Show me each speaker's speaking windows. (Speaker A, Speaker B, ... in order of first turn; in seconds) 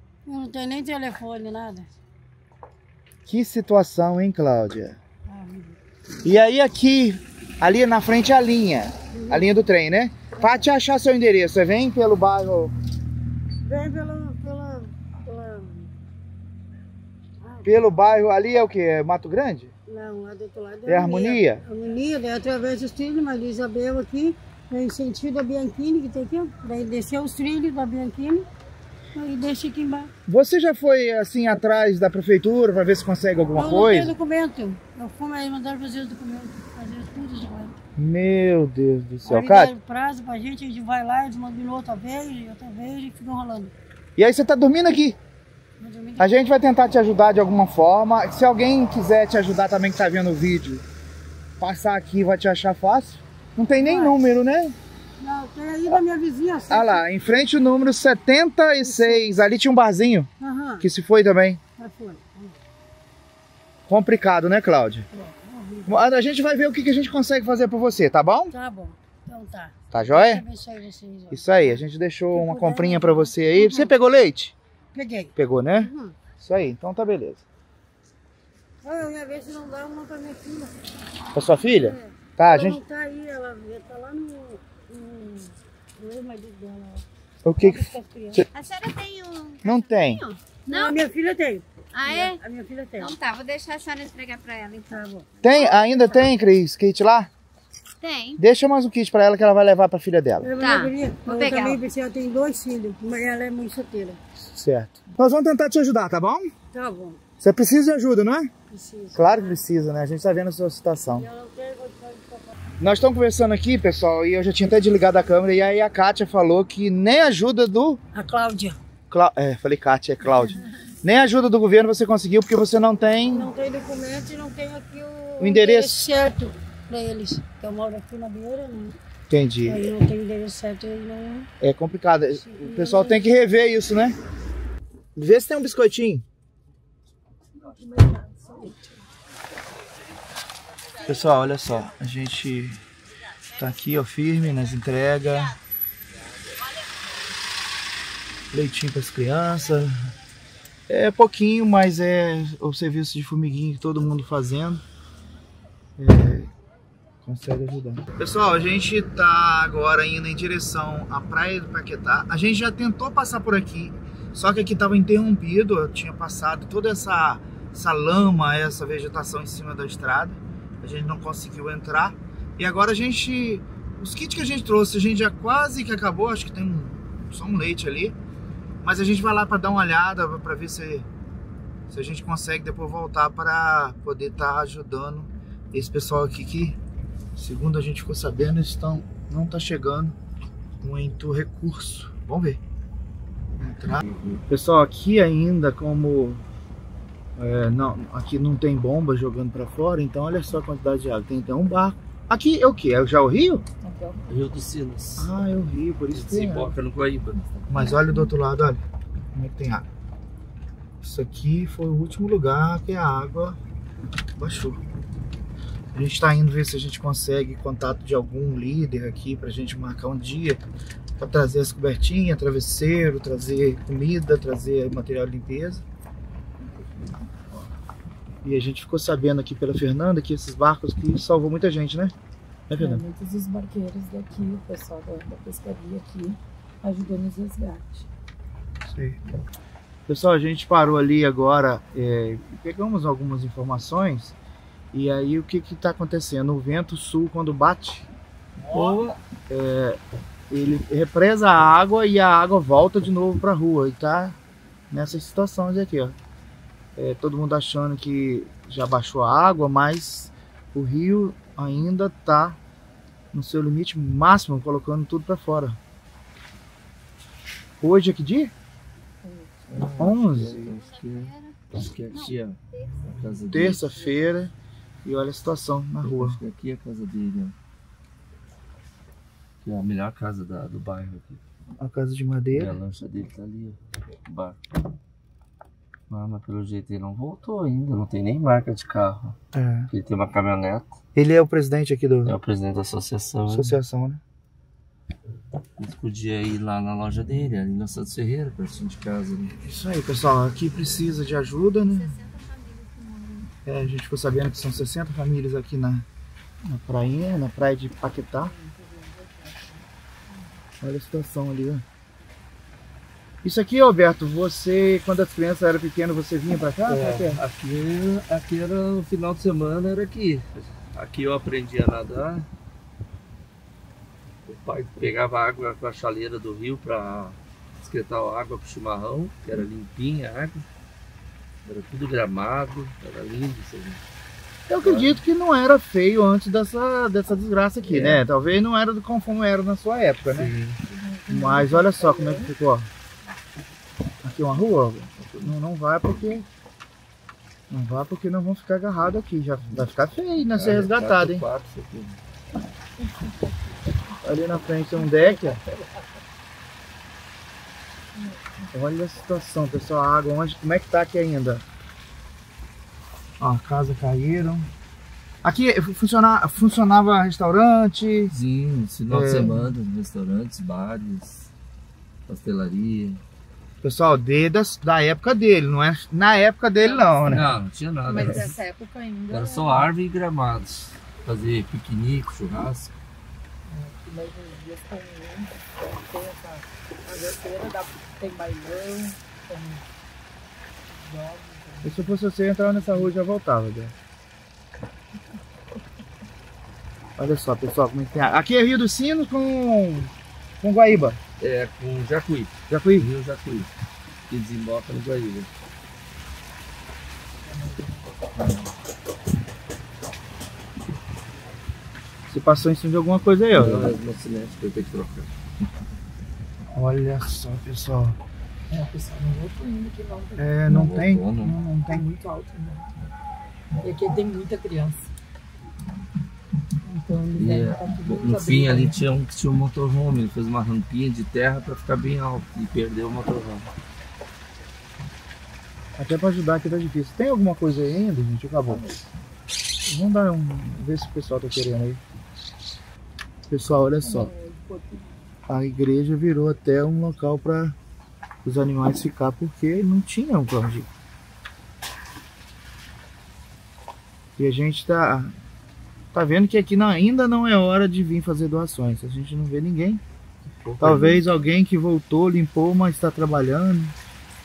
Speaker A: 0.2-1.9, 5.3-5.8, 9.1-9.5, 10.3-10.6, 13.6-15.9, 17.4-17.7, 19.9-28.5, 29.1-30.1, 33.5-37.8, 39.2-43.7, 45.8-46.3, 53.8-54.2, 55.2-57.0, 58.8-59.3, 60.4-60.9, 61.8-62.5, 65.1-66.0, 68.5-73.9, 74.9-76.2, 78.8-80.7, 81.8-87.0, 87.6-88.4, 90.7-93.2, 94.9-95.3, 100.4-104.2, 106.7-107.2, 108.7-109.6, 111.1-112.5, 118.1-118.8, 123.3-128.9, 129.7-131.5, 132.3-133.2
Speaker B: 3.2-5.0, 6.2-12.7, 17.6-19.7, 20.9-21.6, 30.3-34.1, 38.0-39.7, 44.2-45.2, 46.2-50.8, 51.6-54.8, 56.7-60.3, 60.8-61.6, 63.9-65.1, 65.9-68.5, 69.9-70.4, 71.3-74.5, 75.3-77.4, 81.3-82.8, 87.4-88.5, 89.6-90.2, 95.4-97.3, 98.4-100.5, 104.5-106.5, 107.4-108.5, 109.1-111.3, 112.8-118.0, 119.1-123.5, 125.4-126.0, 129.3-129.9, 131.6-134.2, 135.2-136.2, 141.0-142.8, 143.6-145.6, 148.5-149.9, 150.9-154.8, 156.0-156.5, 157.2-178.2, 178.8-181.1, 181.9-186.8, 187.3-190.1, 190.8-192.6, 193.6-196.4, 197.4-203.6, 205.2-206.7, 207.7-208.8, 209.3-209.8, 211.0-213.6, 214.3-214.8, 215.9-220.6, 221.2-225.8, 228.4-232.1, 232.7-233.0, 238.9-239.2, 240.1-244.3, 244.9-248.1, 249.5-254.4, 254.9-256.2, 256.9-262.6, 263.3-265.8, 267.8-268.5, 270.0-270.7, 273.5-274.5, 275.0-276.4, 281.8-282.8, 289.5-289.9, 291.1-292.4, 293.5-294.2, 299.6-302.2, 303.6-306.1, 306.6-308.5, 310.8-311.8, 313.4-317.4, 334.7-340.5, 341.3-342.9, 344.2-346.4, 347.7-351.4, 354.2-355.6, 358.7-361.6, 363.4-364.7, 365.4-368.3, 369.1-369.7, 373.8-377.6, 391.8-393.9, 397.2-401.2, 402.7-403.1, 412.3-413.9, 416.7-418.2, 420.4-422.1, 435.9-438.9, 439.8-442.0, 443.5-444.3, 445.5-447.8, 448.4-450.9, 454.4-455.3, 456.1-460.0, 460.8-463.9
Speaker C: 88.5-91.0, 91.9-92.4, 93.0-96.0, 98.0-98.4, 100.6-101.8, 270.8-271.5, 301.9-303.5
Speaker D: 137.6-138.8, 203.8-204.4, 232.7-238.1, 269.2-269.6, 308.4-309.8, 341.0-342.5, 355.0-355.8, 358.2-358.7, 376.8-377.3, 378.0-379.9, 383.7-389.8, 390.9-392.2, 392.7-393.1, 407.4-408.1, 418.7-420.6, 421.9-422.9, 423.8-425.1, 426.8-429.0, 444.0-445.1
Speaker E: 194.0-194.4, 204.3-205.3, 206.1-207.7, 248.7-249.2, 269.7-273.9, 276.0-277.5, 279.6-281.4, 282.5-284.6, 286.1-289.4, 289.9-290.9, 292.2-293.8, 295.8-299.6, 316.9-322.5, 324.4-330.6, 331.6-334.0, 334.8-335.2, 337.9-338.2, 340.3-341.1, 345.2-345.5, 350.5-352.2, 368.3-371.5, 372.3-373.2, 377.2-378.5, 379.3-382.9, 401.4-403.7, 404.3-405.5, 413.5-415.3, 420.6-421.6, 427.4-433.7, 460.6-461.3